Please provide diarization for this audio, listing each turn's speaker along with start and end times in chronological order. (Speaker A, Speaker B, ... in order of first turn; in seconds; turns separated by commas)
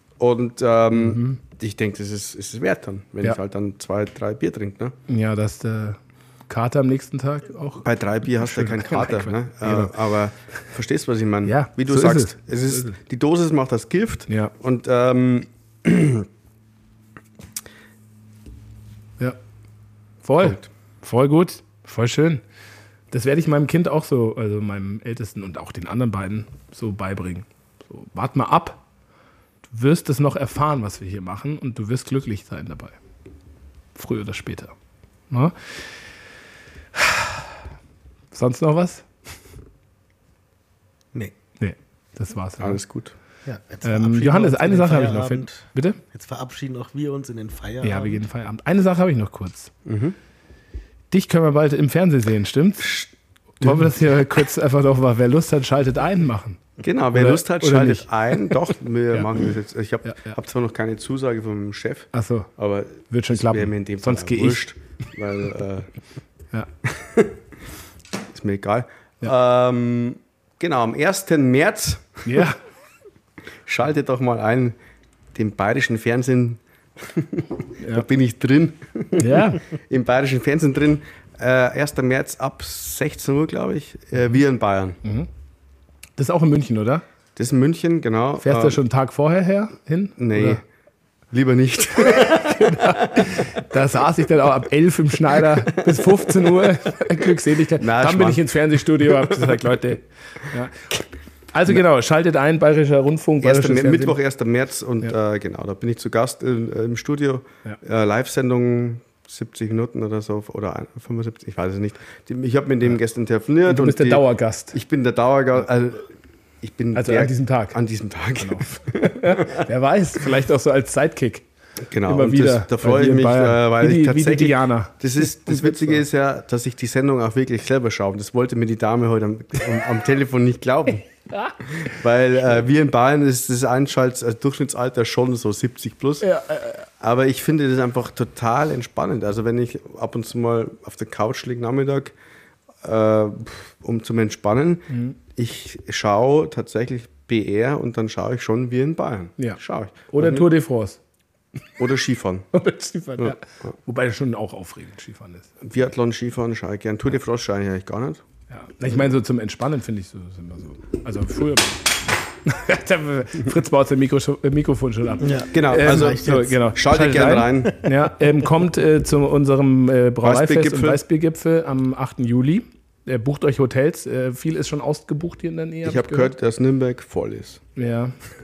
Speaker A: 0.2-5.0, Speaker B: 0.9-1.4, Speaker B: 5.1-6.0, Speaker B: 6.5-9.9, Speaker A: 7.8-16.3, Speaker B: 11.4-12.9, Speaker B: 20.2-22.4, Speaker A: 20.4-20.7, Speaker B: 23.1-28.8, Speaker B: 29.7-33.0, Speaker B: 34.0-34.7, Speaker B: 35.3-35.8, Speaker B: 37.0-37.6, Speaker B: 38.3-39.1, Speaker B: 41.6-42.8, Speaker A: 42.6-43.1, Speaker C: 43.5-48.2, Speaker B: 43.8-46.0, Speaker B: 47.8-49.7, Speaker A: 49.9-50.2, Speaker B: 51.1-53.0, Speaker A: 52.8-53.1, Speaker B: 53.6-59.4, Speaker A: 53.6-54.4, Speaker A: 56.8-65.9, Speaker B: 60.0-60.4, Speaker B: 62.1-62.5, Speaker B: 63.1-64.7, Speaker A: 66.8-67.4, Speaker A: 68.3-72.5, Speaker B: 72.3-72.6, Speaker A: 73.7-74.8, Speaker A: 75.3-85.0, Speaker B: 77.8-78.1, Speaker B: 79.2-79.6, Speaker B: 85.0-85.3, Speaker B: 86.2-87.0, Speaker A: 87.4-88.8, Speaker B: 88.4-90.6, Speaker A: 90.2-90.6, Speaker A: 91.3-93.6, Speaker B: 92.0-100.8, Speaker A: 95.4-96.7, Speaker A: 97.8-99.6, Speaker B: 101.5-104.2, Speaker A: 103.4-119.7, Speaker B: 113.7-114.8, Speaker B: 116.9-117.8, Speaker B: 118.4-121.4, Speaker A: 121.9-131.1, Speaker B: 122.1-126.0, Speaker B: 131.3-131.9, Speaker A: 131.8-136.3, Speaker B: 136.2-136.9, Speaker A: 137.0-142.1, Speaker A: 142.8-150.5, Speaker B: 149.4-151.0, Speaker A: 151.8-152.5, Speaker B: 152.5-155.5, Speaker A: 153.2-153.7, Speaker A: 155.6-158.2, Speaker B: 158.5-176.3, Speaker C: 165.2-166.6, Speaker A: 165.5-167.8, Speaker A: 170.2-171.0, Speaker A: 175.8-177.6, Speaker B: 177.8-178.1